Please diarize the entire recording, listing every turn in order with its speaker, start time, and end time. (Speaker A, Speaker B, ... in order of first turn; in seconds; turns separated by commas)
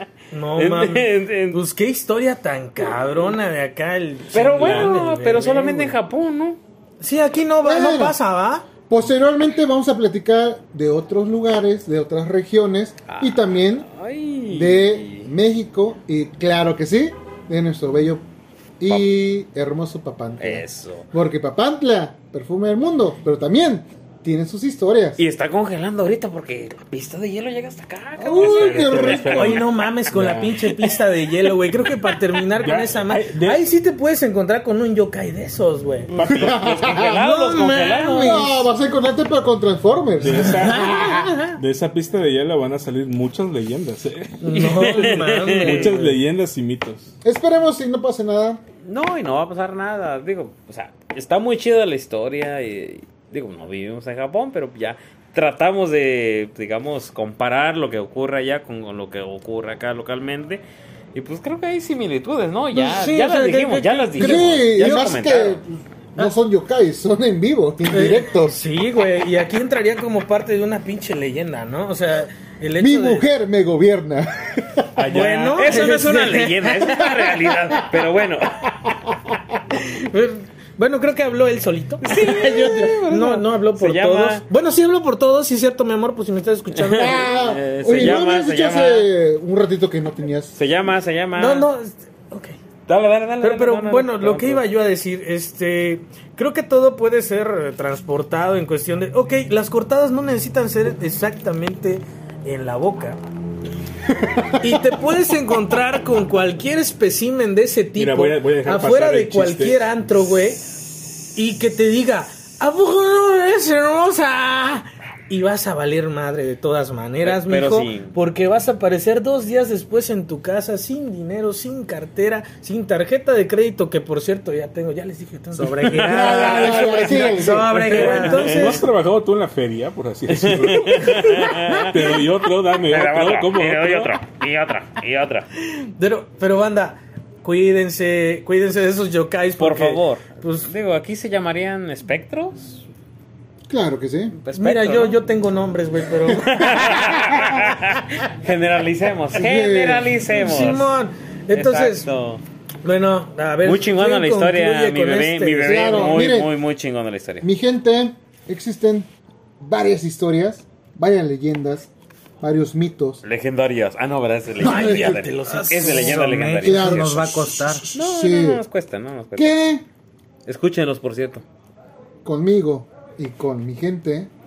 Speaker A: 0.3-5.9, Speaker B: 0.6-1.6, Speaker B: 4.3-6.6, Speaker C: 4.6-4.9, Speaker A: 7.0-8.7, Speaker D: 7.6-8.2, Speaker D: 8.9-13.9, Speaker B: 13.1-15.3, Speaker D: 14.5-18.2, Speaker D: 18.8-25.2, Speaker B: 20.4-21.1, Speaker B: 25.2-29.6, Speaker D: 28.2-29.6, Speaker C: 28.4-30.7, Speaker A: 29.3-38.6, Speaker C: 32.5-33.6, Speaker C: 36.1-36.6, Speaker B: 36.3-38.6, Speaker D: 36.3-37.1, Speaker D: 38.1-41.0, Speaker C: 40.2-44.4, Speaker A: 40.6-41.5, Speaker A: 44.4-46.1, Speaker B: 44.5-45.9, Speaker C: 45.6-47.1, Speaker D: 47.2-48.6, Speaker B: 48.8-60.6, Speaker B: 61.1-65.6, Speaker A: 62.7-64.5, Speaker D: 64.2-68.6, Speaker A: 67.9-73.3, Speaker D: 72.8-74.9, Speaker C: 75.0-75.7, Speaker A: 75.0-78.0, Speaker B: 75.5-78.7, Speaker A: 79.7-87.3, Speaker B: 82.0-84.4, Speaker B: 86.7-89.1, Speaker D: 87.0-90.5, Speaker B: 90.5-91.7, Speaker A: 91.4-92.6, Speaker B: 92.9-94.7, Speaker A: 93.4-103.2, Speaker A: 104.6-110.6, Speaker C: 108.0-109.9, Speaker A: 111.3-128.8, Speaker B: 117.2-118.1, Speaker E: 125.5-128.6, Speaker B: 125.8-126.1, Speaker D: 126.0-127.7, Speaker C: 127.9-134.2, Speaker B: 128.5-128.8, Speaker B: 130.3-132.1, Speaker B: 132.9-135.5, Speaker A: 135.6-140.7, Speaker B: 139.6-142.8, Speaker D: 143.7-144.4, Speaker B: 144.4-145.2, Speaker A: 144.5-147.1, Speaker B: 146.4-151.0, Speaker D: 149.3-150.1, Speaker A: 150.3-152.1, Speaker B: 151.5-152.4, Speaker A: 152.8-156.1, Speaker B: 153.6-157.4, Speaker D: 155.6-156.5, Speaker D: 157.4-163.2, Speaker B: 163.2-167.3, Speaker D: 164.6-165.1, Speaker A: 164.6-166.3, Speaker E: 165.8-167.8, Speaker D: 166.6-167.3, Speaker D: 167.8-168.6, Speaker B: 167.9-169.5, Speaker D: 169.4-169.8, Speaker B: 170.4-171.4, Speaker D: 172.2-174.3